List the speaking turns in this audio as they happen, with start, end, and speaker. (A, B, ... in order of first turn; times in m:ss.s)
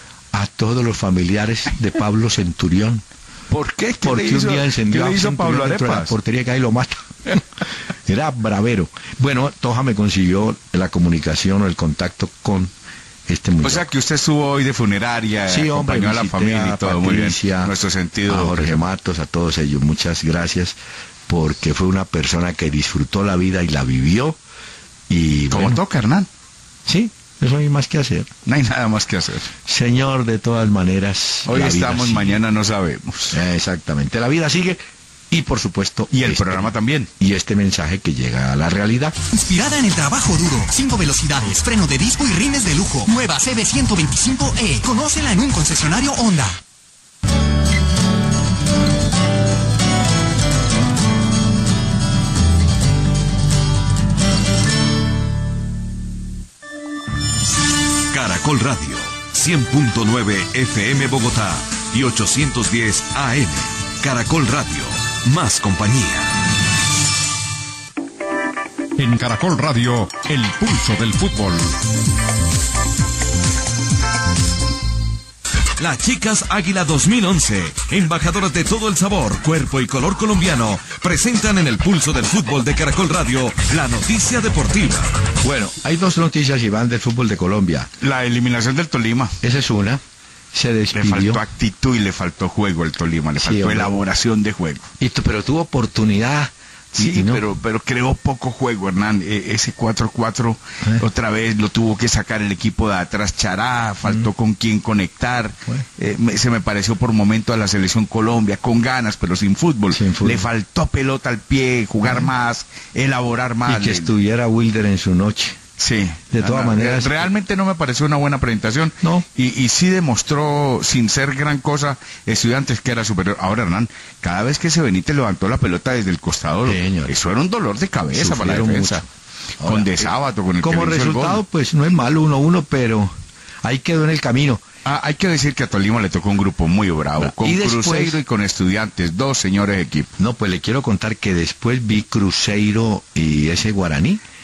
0:00.3-0:03.0 A
0:03.5-0:06.2 B
0:04.0-0:12.7 A
0:13.3-0:13.9 A
0:13.6-0:18.8 B
0:15.5-0:17.7 A
0:18.3-0:24.4 A
0:25.1-0:25.8 A
0:25.5-0:26.3 B
0:26.9-0:28.3 A
0:28.5-0:29.5 B
0:29.6-0:32.4 A
0:31.5-0:33.4 B
0:33.3-0:39.2 A
0:36.1-0:37.1 B
0:39.3-0:46.6 C
0:58.1-1:06.3 D
1:09.0-1:11.8 E
1:15.8-1:25.1 D
1:25.4-1:27.9 A
1:28.0-1:29.4 B
1:29.4-1:30.0 A
1:30.5-1:31.4 A
1:30.9-1:34.9 B
1:33.4-1:34.0 A
1:35.0-1:37.4 A
1:37.0-1:54.1 B
1:49.9-1:50.5 A
1:52.0-1:52.3 A
1:53.6-1:55.6 A
1:55.8-2:09.0 B
1:56.3-1:57.3 A
2:06.7-2:07.2 A
2:08.1-2:09.1 A
2:09.6-2:14.6 A
2:09.6-2:11.4 B
2:14.8-2:20.1 B
2:17.2-2:18.2 A
2:20.2-2:24.2 A